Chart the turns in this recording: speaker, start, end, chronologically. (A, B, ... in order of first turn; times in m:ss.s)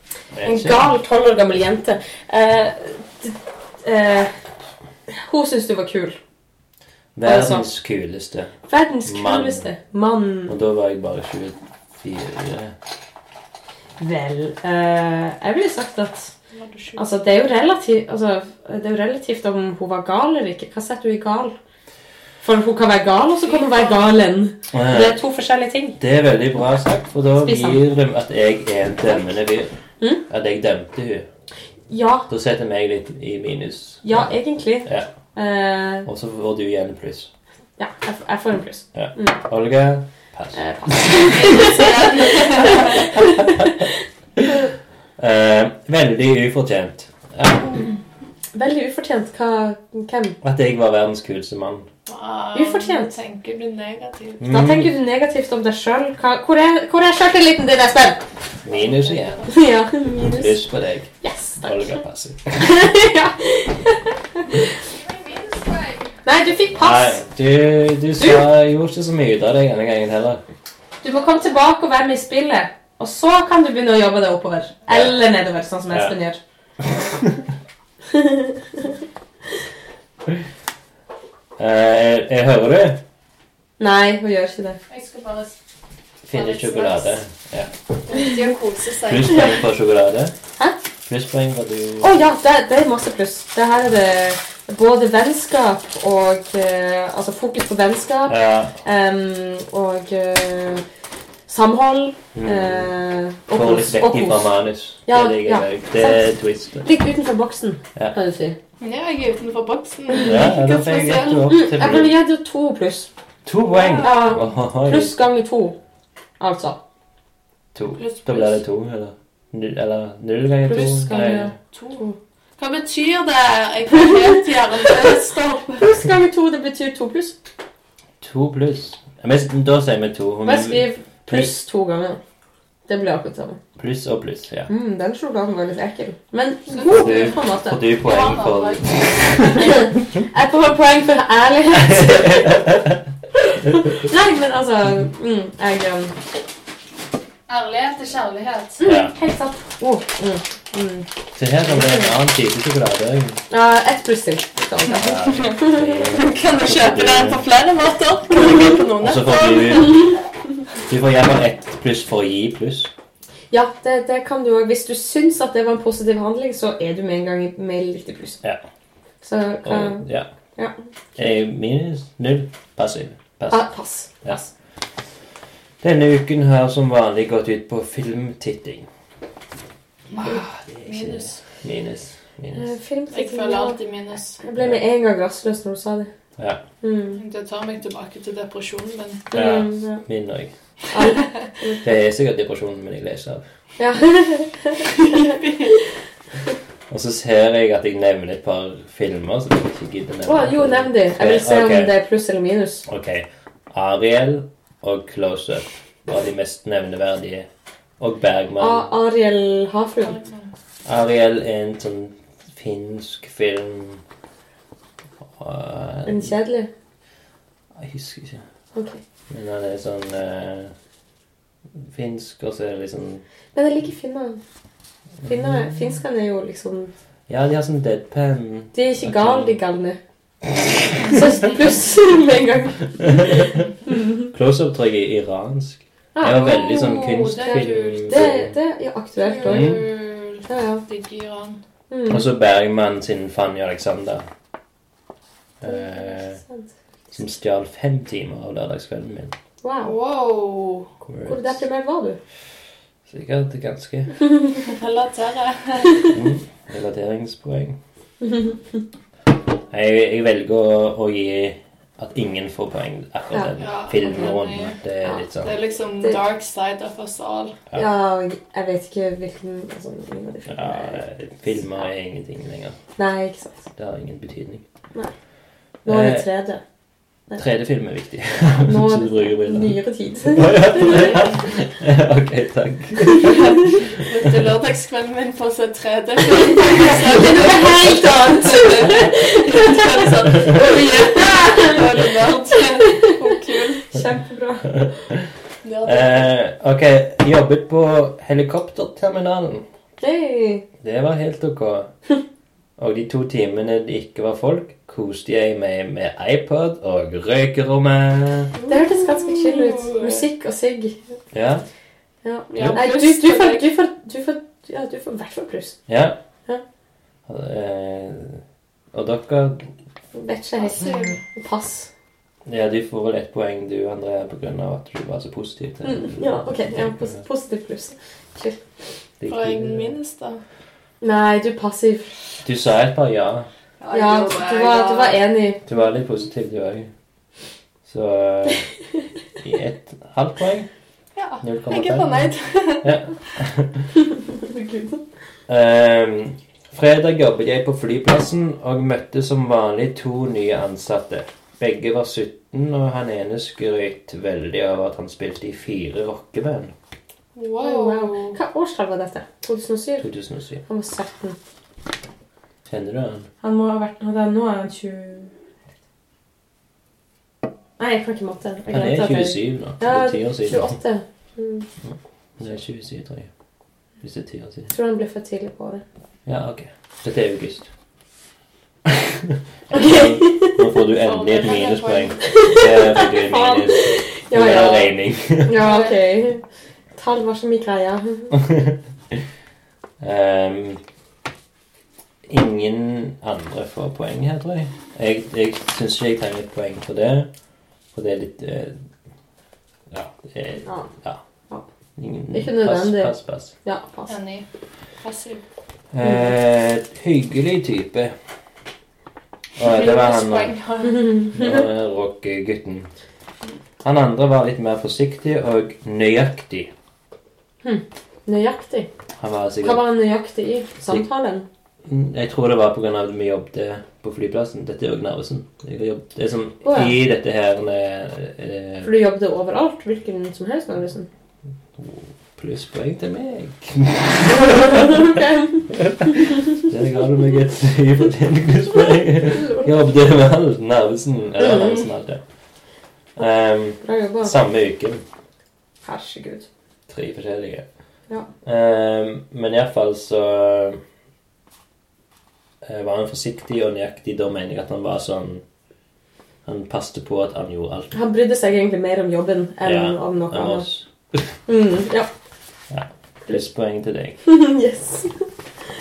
0:00.3-0:00.9 A
0:00.4-0:04.4 B
0:05.1-0:06.2 B
0:07.2-0:09.7 A
0:07.2-0:07.7 B
0:08.7-0:10.6 B
0:10.5-0:12.8 A
0:14.0-0:16.3 B
0:16.5-0:17.1 C
0:17.0-0:21.6 B
0:22.4-0:26.0 B
0:23.4-0:24.2 C
0:24.7-0:25.2 A
0:26.0-0:29.8 A
0:27.4-0:27.8 B
0:30.3-0:31.3 A
0:31.9-0:32.3 B
0:32.3-0:34.4 A
0:34.0-0:36.1 B
0:36.1-0:37.3 A
0:37.8-0:39.4 B
0:39.0-0:41.4 A
0:40.6-0:43.9 B
0:41.2-0:43.0 C
0:43.2-0:43.7 A
0:45.2-0:47.8 A
0:48.5-0:50.4 B
0:50.4-0:51.9 A
0:52.1-0:54.5 C
0:52.5-0:53.2 B
0:54.4-0:54.9 A
0:54.5-0:58.2 B
0:58.6-0:59.5 A
0:58.7-0:59.6 C
0:59.5-1:00.6 B
1:00.2-1:02.6 A
1:01.2-1:02.0 B
1:02.6-1:04.8 B
1:04.9-1:06.2 C
1:06.2-1:07.2 B
1:06.8-1:10.4 A
1:11.0-1:16.4 B
1:14.9-1:15.2 A
1:15.9-1:16.2 A
1:17.0-1:17.4 A
1:18.1-1:18.8 B
1:21.6-1:23.0 A
1:23.8-1:24.8 B
1:24.9-1:25.6 C
1:26.3-1:27.7 A
1:26.3-1:27.2 C
1:28.1-1:29.6 C
1:29.1-1:30.3 A
1:31.1-1:32.2 A
1:32.0-1:40.8 B
1:38.3-1:38.8 A
1:41.5-1:44.5 B
1:42.3-1:42.9 A
1:43.5-1:46.9 A
1:45.1-1:46.2 B
1:46.8-1:48.6 B
1:48.8-1:51.6 C
1:50.2-1:52.2 A
1:51.5-1:53.1 B
1:53.4-1:55.2 A
1:53.7-1:54.4 C
1:54.0-1:55.8 B
1:56.4-1:56.8 B
1:57.7-2:01.5 A
1:58.0-1:58.6 C
2:00.6-2:02.2 B
2:01.1-2:02.1 C
2:02.6-2:05.9 C
2:05.8-2:07.4 B
2:08.2-2:11.5 A
2:10.4-2:12.2 B
2:12.9-2:13.6 B
2:13.8-2:14.7 A
2:14.7-2:17.8 B
2:16.7-2:17.4 C
2:16.9-2:19.9 A
2:18.0-2:19.5 C
2:19.6-2:22.7 B
2:21.7-2:22.9 A
2:23.5-2:26.2 B
2:27.5-2:28.8 C
2:28.8-2:31.1 B
2:28.8-2:29.1 A
2:31.4-2:33.4 A
2:31.7-2:32.1 B
2:33.5-2:36.0 B
2:35.0-2:37.4 A
2:35.2-2:40.0 C
2:39.0-2:40.2 A
2:40.9-2:42.9 A
2:43.5-2:48.4 B
2:49.2-2:50.0 B
2:49.6-2:50.3 A
2:50.6-2:51.2 B
2:51.2-2:53.7 A
2:53.5-2:54.5 B
2:55.8-2:58.9 A
3:00.1-3:01.4 C
3:00.2-3:02.7 A
3:02.6-3:03.8 B
3:03.1-3:04.4 C
3:04.4-3:06.1 B
3:06.8-3:07.2 B
3:07.2-3:09.3 C
3:09.3-3:10.0 B
3:09.3-3:10.5 A
3:10.9-3:11.9 B
3:11.8-3:13.4 A
3:13.8-3:15.5 B
3:16.9-3:21.9 A
3:20.2-3:22.9 B
3:22.9-3:27.5 A
3:28.0-3:28.9 A
3:28.6-3:30.2 B
3:30.0-3:30.5 C
3:30.8-3:34.0 A
3:35.4-3:36.4 A
3:36.1-3:36.7 B
3:37.8-3:38.4 A
3:38.8-3:39.0 B
3:39.3-3:40.7 A
3:41.9-3:43.2 A
3:43.5-3:44.4 B
3:45.2-3:45.7 A
3:45.3-3:46.9 B
3:47.3-3:49.6 A
3:48.7-3:50.0 B
3:51.0-3:54.1 B
3:54.3-3:58.6 A
3:56.2-3:59.8 B
3:56.5-3:58.3 C
3:59.2-4:01.6 C
3:59.4-3:59.8 A
4:00.5-4:00.8 B
4:01.9-4:02.3 B
4:02.1-4:04.3 A
4:05.6-4:06.4 A
4:05.6-4:06.7 B
4:07.1-4:09.4 A
4:09.6-4:10.0 B
4:09.8-4:10.9 C
4:11.0-4:11.6 A
4:11.3-4:12.2 B
4:13.1-4:14.2 A
4:14.3-4:14.6 B
4:14.6-4:16.1 C
4:16.1-4:17.8 A
4:18.2-4:18.6 B
4:19.7-4:25.5 A
4:23.3-4:24.3 B
4:23.6-4:24.8 C
4:25.4-4:27.6 C
4:27.8-4:31.0 B
4:30.5-4:32.8 A
4:33.0-4:33.6 B
4:33.8-4:34.6 A
4:35.8-4:36.6 B
4:35.9-4:36.3 A
4:37.4-4:39.8 A
4:38.6-4:41.2 B
4:40.3-4:43.8 A
4:43.7-4:53.9 C
4:46.6-4:50.7 B
4:53.8-4:54.8 B
4:54.8-4:55.2 A
4:55.6-4:56.3 C
4:55.8-4:59.7 A
5:00.0-5:00.7 B
5:00.8-5:01.9 A
5:02.8-5:08.5 A
5:08.5-5:10.2 C
5:08.7-5:11.0 B
5:11.3-5:11.6 A
5:12.2-5:15.8 B
5:12.5-5:13.7 C
5:15.9-5:16.2 A
5:17.3-5:18.4 A
5:18.9-5:19.7 A
5:20.1-5:21.9 B
5:20.6-5:21.2 C
5:22.5-5:27.2 A
5:25.8-5:28.6 B
5:29.2-5:29.9 A
5:29.3-5:30.4 C
5:31.0-5:32.1 B
5:32.4-5:33.5 A
5:33.8-5:35.2 C
5:33.9-5:35.6 B
5:35.7-5:36.9 A
5:37.9-5:38.6 A
5:39.4-5:40.7 A
5:41.2-5:43.0 C
5:41.4-5:42.3 A
5:42.8-5:43.8 A
5:44.4-5:45.0 B
5:45.5-5:56.7 A
5:57.4-5:58.4 C
5:57.6-6:00.1 B
6:00.0-6:00.6 A
6:00.7-6:01.4 B
6:02.7-6:03.3 A
6:03.4-6:05.3 B
6:07.8-6:11.7 B
6:08.7-6:10.8 A
6:11.8-6:13.3 A
6:14.0-6:14.7 A
6:14.7-6:15.8 B
6:16.3-6:17.7 A
6:18.9-6:25.8 A
6:19.7-6:20.6 B
6:21.0-6:22.4 C
6:22.3-6:24.9 B
6:25.5-6:26.4 B
6:25.6-6:26.0 C
6:27.0-6:28.3 B
6:28.3-6:28.8 A
6:30.0-6:30.8 A
6:32.3-6:37.3 A
6:37.9-6:38.8 A
6:39.9-6:41.2 A
6:42.0-6:43.5 A
6:42.3-6:43.1 B
6:43.6-6:44.1 B
6:44.1-6:44.5 C
6:45.0-6:45.4 C
6:45.9-6:48.1 A
6:49.6-6:50.6 A
6:49.6-6:51.3 C
6:50.9-6:51.6 B
6:51.3-6:52.9 A
6:53.8-6:56.7 A
6:57.6-6:58.9 B
6:59.2-6:59.9 A
6:59.6-7:01.5 B
7:00.8-7:01.1 A
7:01.9-7:08.9 A
7:06.6-7:06.9 B
7:08.8-7:11.1 B
7:11.8-7:15.1 A
7:14.7-7:15.6 B
7:15.7-7:22.2 A
7:19.4-7:19.7 B
7:21.4-7:21.8 B
7:23.2-7:25.0 A
7:23.8-7:24.3 B
7:25.8-7:26.5 B
7:26.9-7:27.6 A
7:28.4-7:30.8 A
7:32.6-7:35.4 A
7:36.4-7:38.0 A
7:37.9-7:40.7 B
7:39.6-7:41.4 A
7:41.5-7:42.1 B
7:42.7-7:44.2 A
7:44.2-7:45.3 B